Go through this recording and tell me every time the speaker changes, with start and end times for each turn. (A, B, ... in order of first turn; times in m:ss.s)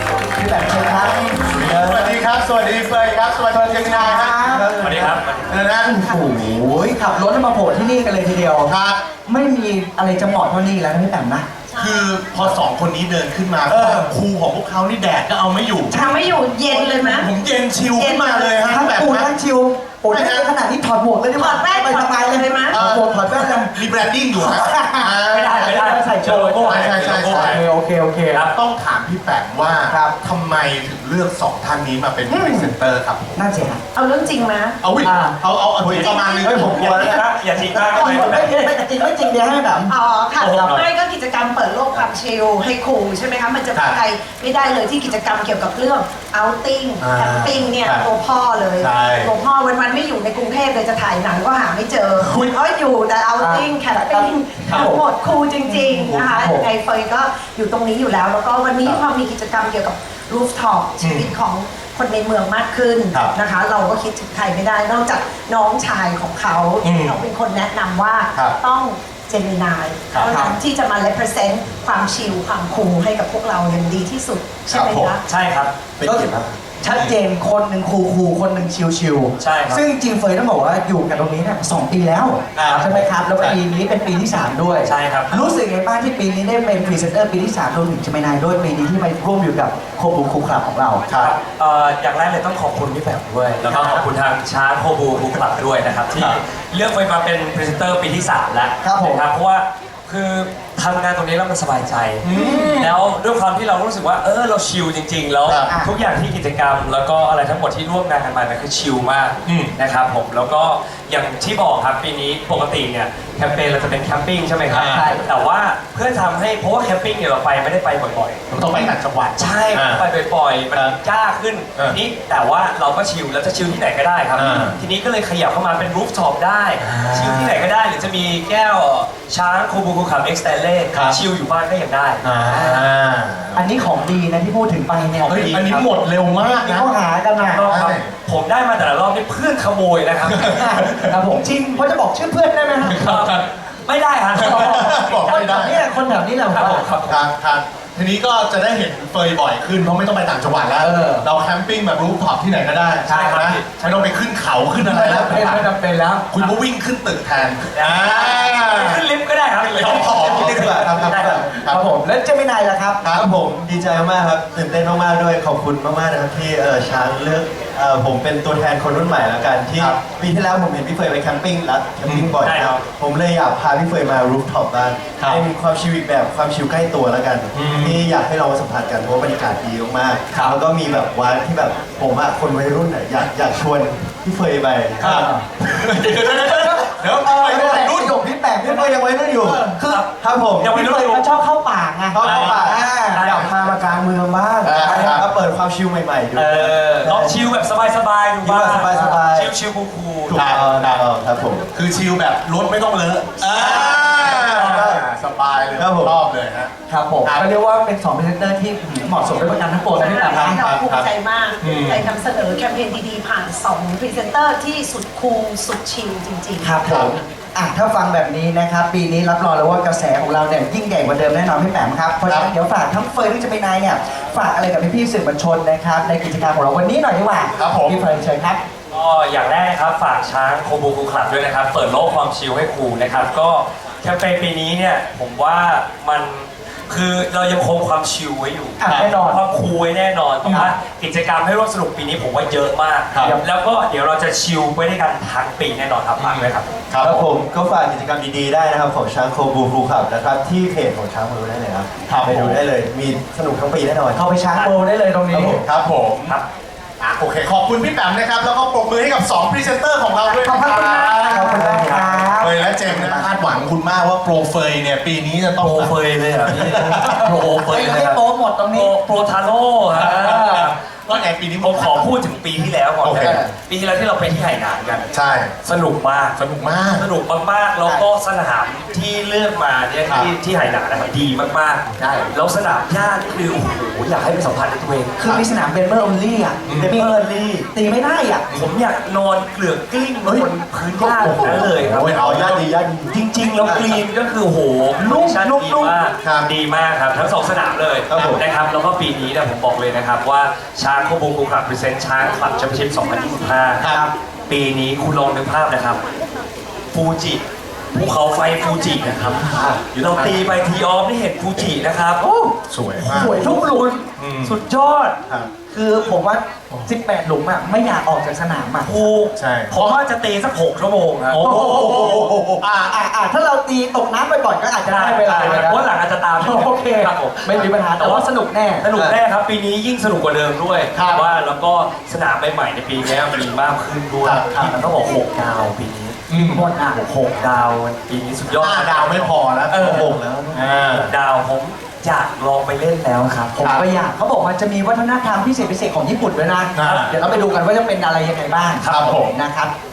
0:00.3-0:01.2 A
0:00.9-0:04.6 B
0:01.4-0:02.2 C
0:03.5-0:04.7 A
0:04.5-0:05.2 C
0:04.8-0:05.5 D
0:05.5-0:06.2 B
0:05.8-0:08.7 A
0:08.7-0:09.0 B
0:09.2-0:11.5 A
0:11.8-0:15.9 B
0:15.9-0:17.3 E
0:16.6-0:19.3 B
0:17.9-0:18.6 E
0:18.6-0:28.4 A
0:20.1-0:20.5 B
0:21.3-0:22.8 E
0:22.7-0:25.8 B
0:25.3-0:27.6 D
0:26.3-0:27.6 B
0:28.3-0:33.4 B
0:29.9-0:30.1 A
0:32.3-0:32.7 E
0:33.4-0:33.8 A
0:33.9-0:34.8 E
0:34.8-0:37.2 B
0:35.0-0:35.4 A
0:35.8-0:37.2 C
0:35.8-0:36.6 E
0:36.5-0:38.5 D
0:37.6-0:39.9 A
0:39.9-1:15.2 E
0:40.4-0:40.8 B
0:47.0-0:48.0 B
0:48.8-0:49.3 B
0:52.2-0:52.5 B
0:53.4-0:55.0 A
0:55.6-0:56.7 A
1:01.0-1:01.3 B
1:06.8-1:07.2 B
1:10.3-1:10.6 A
1:14.7-1:15.1 B
1:15.2-1:15.7 D
1:16.0-1:16.6 C
1:16.8-1:31.0 A
1:16.8-1:17.1 B
1:19.4-1:19.8 D
1:22.5-1:23.5 B
1:22.6-1:22.9 D
1:24.8-1:25.3 D
1:31.2-1:58.4 D
1:38.8-1:39.2 A
1:42.2-1:42.9 B
1:42.3-1:42.8 A
1:45.4-1:45.7 B
1:49.4-1:49.7 B
1:54.7-1:55.1 B
1:54.9-1:55.2 A
1:58.5-2:00.0 B
1:59.4-2:12.2 D
2:04.4-2:04.7 B
2:06.8-2:07.6 B
2:12.2-2:13.6 B
2:12.5-2:12.9 A
2:13.5-2:15.9 A
2:15.2-2:16.9 B
2:16.4-2:17.6 A
2:17.5-2:20.8 D
2:17.6-2:18.1 B
2:20.2-2:21.1 B
2:20.7-2:23.0 A
2:22.8-2:23.4 B
2:22.9-2:25.8 D
2:24.3-2:25.8 B
2:24.4-2:26.9 A
2:26.4-2:27.3 D
2:27.0-2:35.7 B
2:30.8-2:31.3 A
2:33.0-2:34.1 D
2:34.8-2:36.3 A
2:36.3-2:39.0 B
2:37.7-2:41.4 D
2:39.6-2:41.9 B
2:40.1-2:41.4 C
2:41.7-2:43.0 A
2:43.0-3:05.3 C
2:52.0-2:52.3 B
2:52.4-2:52.8 D
2:57.5-2:58.0 B
3:05.0-3:08.2 B
3:05.0-3:05.4 A
3:06.2-3:09.0 A
3:08.6-3:09.6 C
3:09.5-3:09.8 B
3:09.7-3:10.1 A
3:09.8-3:10.1 D
3:10.2-3:10.9 C
3:10.6-3:13.3 A
3:10.6-3:11.2 D
3:12.1-3:17.5 C
3:12.2-3:13.4 D
3:12.2-3:12.5 B
3:14.6-3:15.2 A
3:14.7-3:15.3 B
3:16.3-3:20.4 D
3:18.4-3:19.5 C
3:18.9-3:19.2 A
3:20.3-3:21.0 B
3:20.3-3:21.7 C
3:21.7-3:26.7 B
3:23.5-3:25.0 C
3:25.8-3:26.2 C
3:26.9-3:30.6 A
3:29.9-3:36.8 E
3:30.2-3:31.1 B
3:31.6-3:32.1 B
3:36.6-3:48.6 A
3:36.8-3:37.1 B
3:47.6-3:48.0 B
3:48.9-4:06.7 D
3:58.8-3:59.4 A
4:06.2-4:07.1 B
4:07.0-4:14.2 C
4:12.1-4:12.6 B
4:14.1-4:15.6 A
4:14.5-4:14.8 D
4:15.3-4:15.6 C
4:15.3-4:16.4 B
4:17.0-4:28.0 B
4:20.4-4:23.3 A
4:25.6-4:28.2 D
4:27.6-4:28.9 A
4:28.7-4:30.7 D
4:29.9-4:32.1 B
4:30.0-4:30.7 A
4:31.6-4:35.0 D
4:33.0-4:33.4 B
4:33.2-4:33.5 A
4:35.1-4:35.5 B
4:35.6-4:36.4 D
4:36.4-4:37.0 B
4:36.9-4:45.2 D
4:42.0-4:42.3 A
4:45.2-4:47.2 A
4:46.7-4:46.9 B
4:46.8-4:47.7 C
4:47.7-4:48.4 A
4:48.5-4:52.6 D
4:51.0-4:52.6 B
4:52.2-4:53.9 C
4:53.1-5:03.8 D
4:55.0-4:56.0 A
4:58.1-4:58.4 C
5:04.5-5:06.0 D
5:06.9-5:12.2 D
5:12.2-5:14.0 A
5:12.7-5:13.6 B
5:13.2-5:13.8 D
5:14.2-5:14.6 B
5:14.4-5:15.2 D
5:15.7-5:18.9 A
5:18.8-5:21.4 D
5:19.4-5:19.9 B
5:21.3-5:23.0 B
5:21.4-5:22.4 A
5:22.9-5:25.8 A
5:24.8-5:28.3 D
5:26.4-5:28.8 A
5:28.8-5:36.2 D
5:30.9-5:31.2 B
5:34.2-5:34.7 B
5:36.3-5:36.6 B
5:36.3-5:37.0 A
5:36.9-5:40.0 D
5:38.6-5:41.1 B
5:39.7-5:40.1 A
5:39.8-5:40.6 C
5:40.7-5:43.6 D
5:43.6-5:49.7 A
5:46.7-5:47.1 B
5:48.8-5:49.4 B